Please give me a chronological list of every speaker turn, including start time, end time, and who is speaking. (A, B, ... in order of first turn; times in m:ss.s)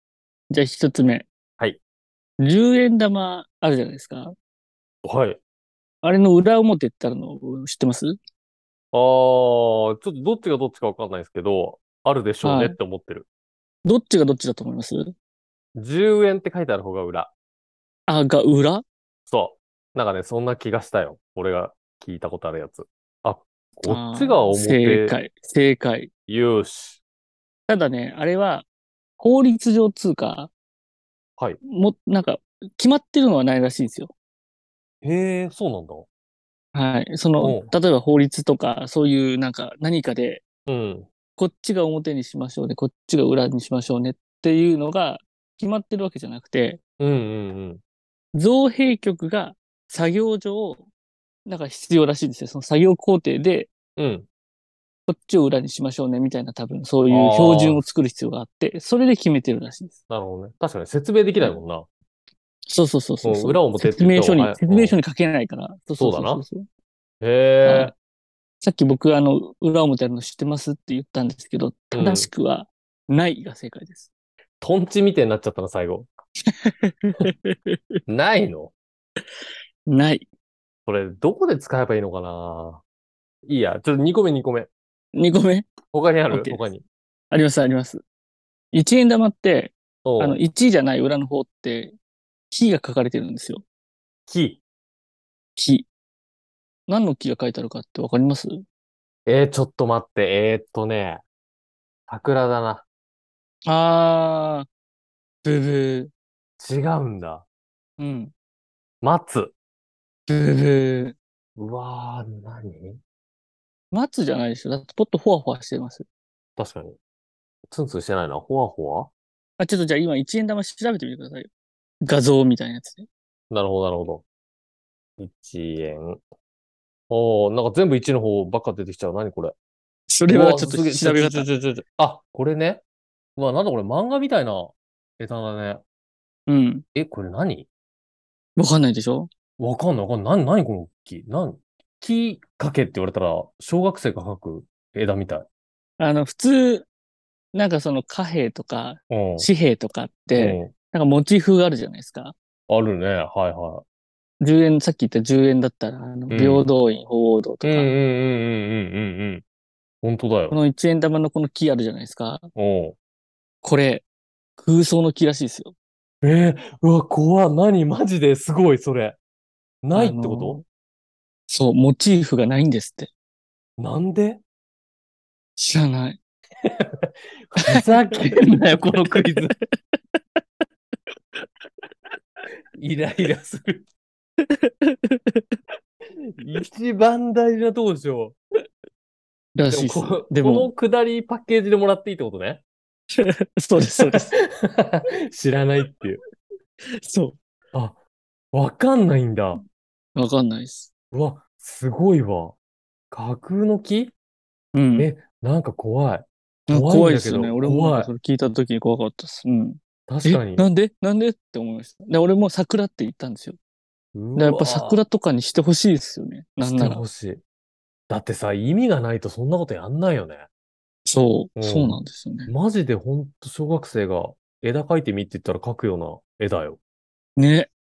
0:00.5-0:01.3 A
0:02.4-0:04.3 A
0:05.0-0:05.4 B
0:06.0-0:08.2 A
0:08.9-0:13.2 B
0:12.4-0:12.8 A
0:13.8-0:15.1 A
0:15.7-0:17.3 B
0:18.1-0:18.8 A
0:19.3-0:25.2 B
0:23.8-0:26.1 A
0:26.3-0:27.0 B
0:27.7-0:28.6 A
0:29.2-0:30.5 A
0:31.7-0:34.1 A
0:35.0-0:36.1 B
0:36.7-0:40.4 A
0:37.4-0:37.7 B
0:40.7-0:41.1 B
0:41.4-0:46.8 A
0:47.0-0:47.8 B
0:48.3-0:50.9 A
0:51.4-0:53.7 A
0:54.0-0:54.3 B
0:55.1-1:00.0 A
0:57.1-0:57.8 B
1:00.1-1:01.9 B
1:02.7-1:06.6 A
1:03.2-1:05.0 B
1:06.0-1:06.4 B
1:07.2-1:07.9 B
1:07.6-1:07.9 A
1:08.6-1:14.1 A
1:11.9-1:12.3 B
1:14.6-1:16.1 B
1:16.5-1:18.0 A
1:18.1-1:18.7 B
1:19.9-1:20.3 A
1:20.8-1:22.8 B
1:23.4-1:24.7 B
1:25.1-1:25.7 A
1:25.9-1:26.8 B
1:26.3-1:26.6 A
1:27.3-1:28.0 A
1:28.7-1:31.9 A
1:30.0-1:30.4 B
1:32.5-1:33.6 A
1:34.3-1:34.6 B
1:35.6-1:35.9 A
1:36.9-1:38.6 A
1:39.2-1:41.2 B
1:42.1-1:42.8 B
1:43.6-1:44.7 A
1:45.4-1:46.1 A
1:46.6-1:47.4 B
1:48.0-1:48.3 A
1:49.0-1:49.5 B
1:50.3-1:51.2 A
1:51.6-1:53.0 B
1:53.9-1:56.0 A
1:56.6-1:57.0 B
1:57.7-1:59.1 B
1:59.6-2:01.5 A
2:02.0-2:03.1 A
2:03.5-2:04.2 B
2:05.2-2:06.2 B
2:07.1-2:09.5 B
2:10.1-2:11.5 A
2:10.3-2:12.8 B
2:13.4-2:15.8 B
2:16.5-2:16.8 A
2:16.9-2:17.7 B
2:18.6-2:19.3 A
2:19.6-2:25.5 B
2:26.0-2:26.9 A
2:27.5-2:32.3 A
2:29.1-2:29.5 B
2:30.3-2:30.7 B
2:32.7-2:33.8 B
2:34.4-2:37.9 A
2:36.3-2:36.7 B
2:37.6-2:39.4 B
2:40.0-2:40.6 B
2:40.5-2:42.5 A
2:42.6-2:43.0 B
2:43.6-2:44.0 A
2:44.6-2:45.7 A
2:46.2-2:49.2 B
2:49.8-2:50.6 B
2:49.9-2:50.6 A
2:51.5-2:53.1 A
2:53.8-2:54.4 B
2:55.6-2:56.2 A
2:56.6-2:59.5 B
2:57.6-2:58.5 A
3:01.4-3:01.8 A
3:02.8-3:03.9 B
3:04.4-3:05.6 A
3:06.4-3:08.4 B
3:09.5-3:10.7 A
3:09.7-3:12.6 B
3:13.2-3:14.3 A
3:14.0-3:16.2 B
3:17.0-3:17.4 A
3:17.7-3:18.0 B
3:18.5-3:19.6 B
3:20.1-3:20.9 A
3:21.1-3:22.5 B
3:23.1-3:24.1 B
3:24.7-3:25.1 A
3:25.0-3:28.1 B
3:26.7-3:33.6 A
3:30.1-3:30.7 B
3:34.1-3:35.0 B
3:34.3-3:37.0 A
3:36.6-3:37.4 B
3:38.1-3:40.4 B
3:41.0-3:42.5 A
3:41.6-3:46.8 B
3:47.4-3:47.7 A